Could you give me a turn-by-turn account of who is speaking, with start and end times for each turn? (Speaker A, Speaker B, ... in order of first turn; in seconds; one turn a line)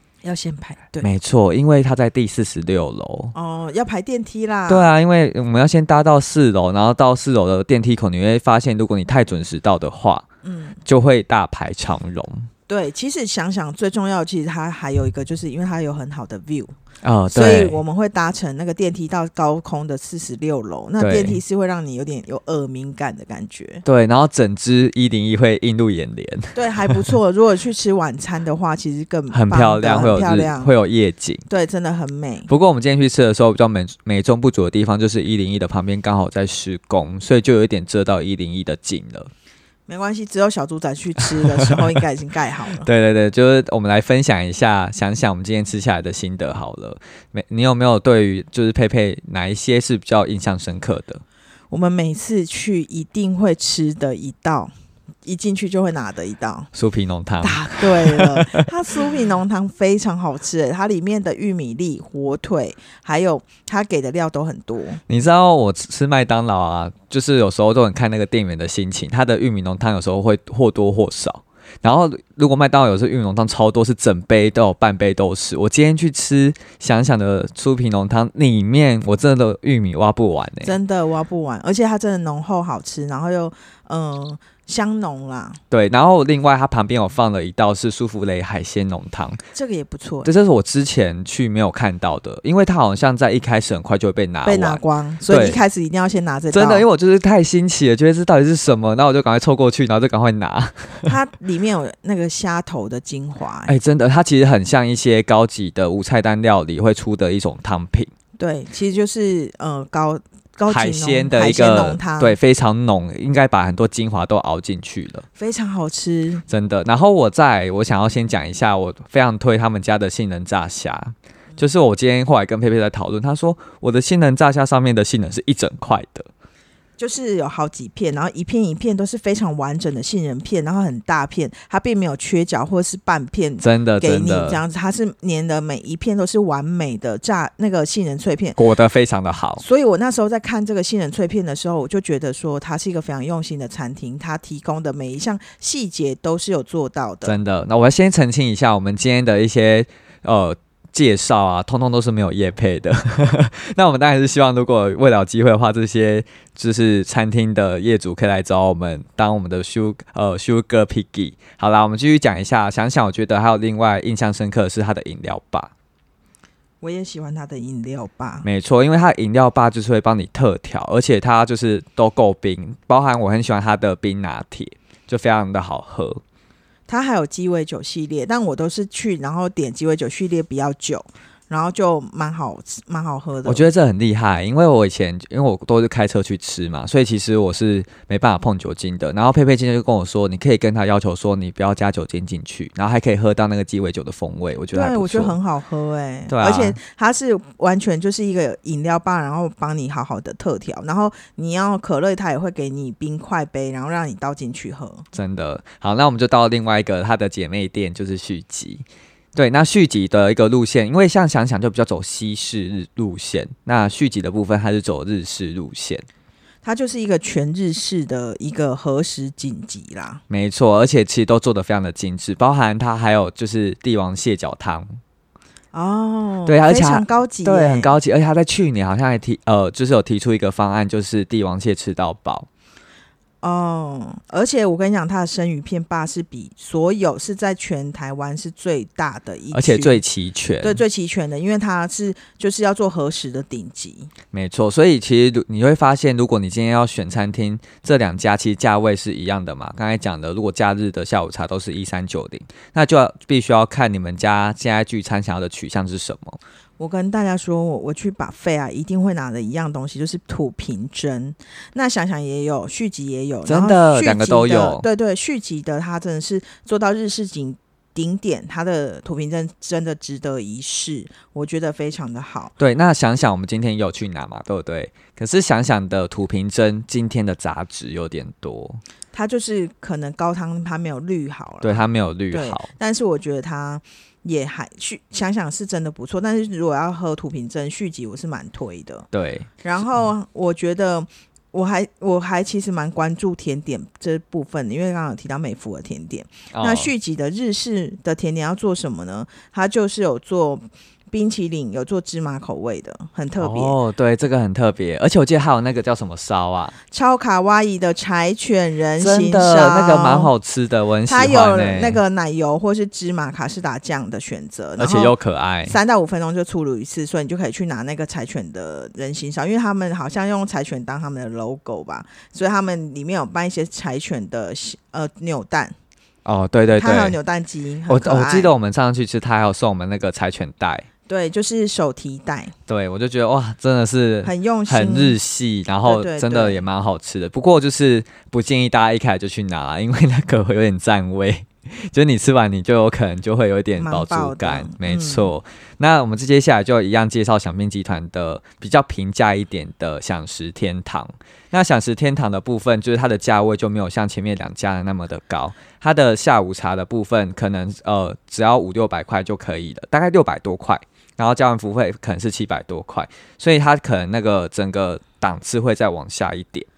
Speaker A: 0.2-1.1
Speaker B: 1.0-3.3
Speaker A: 3.3-4.9
Speaker B: 4.7-10.2
Speaker A: 10.4-10.8
Speaker B: 10.8-12.5
Speaker A: 12.7-16.7
Speaker B: 17.0-17.8
Speaker A: 17.3-23.8
Speaker B: 21.0-21.4
Speaker B: 23.9-27.0
Speaker A: 26.6-30.7
Speaker B: 29.3-31.4
Speaker A: 31.5-32.5
Speaker B: 32.5-39.3
Speaker A: 39.9-42.9
Speaker B: 41.4-41.7
Speaker B: 42.8-51.2
Speaker A: 51.7-54.7
Speaker A: 55.2-56.7
Speaker B: 56.7-58.7
Speaker A: 57.4-65.0
Speaker B: 65.1-80.8
Speaker A: 80.6-85.6
Speaker B: 85.7-89.4
Speaker A: 89.5-90.3
Speaker B: 90.2-95.6
Speaker A: 94.4-96.9
Speaker B: 96.5-101.1
Speaker A: 101.1-103.8
Speaker B: 103.7-108.1
Speaker A: 108.4-112.4
Speaker B: 110.7-115.2
Speaker A: 115.4-116.4
Speaker B: 116.5-126.3
Speaker A: 127.0-138.6
Speaker B: 133.6-134.6
Speaker B: 138.6-139.6
Speaker A: 139.6-147.3
Speaker B: 147.2-165.7
Speaker A: 166.8-168.5
Speaker B: 168.4-176.2
Speaker A: 176.9-183.6
Speaker B: 183.4-195.4
Speaker A: 194.7-205.1
Speaker B: 196.3-196.8
Speaker B: 205.1-216.1
Speaker A: 216.6-220.2
Speaker B: 220.3-224.9
Speaker A: 225.7-227.9
Speaker B: 226.4-232.5
Speaker A: 233.4-240.0
Speaker B: 239.5-240.8
Speaker A: 240.6-244.1
Speaker B: 244.3-256.4
Speaker A: 256.8-272.5
Speaker B: 263.5-264.9
Speaker B: 272.6-278.8
Speaker A: 279.1-289.1
Speaker B: 281.6-282.7
Speaker B: 289.1-289.5
Speaker A: 289.6-303.8
Speaker B: 296.5-296.9
Speaker B: 303.4-306.8
Speaker A: 306.9-310.3
Speaker B: 309.0-312.0
Speaker A: 311.1-315.1
Speaker B: 314.8-315.8
Speaker A: 315.6-325.8
Speaker B: 326.2-327.2
Speaker A: 326.8-328.5
Speaker B: 327.9-330.9
Speaker A: 331.1-332.5
Speaker B: 332.7-366.7
Speaker A: 334.2-335.2
Speaker A: 335.9-336.6
Speaker A: 343.8-345.3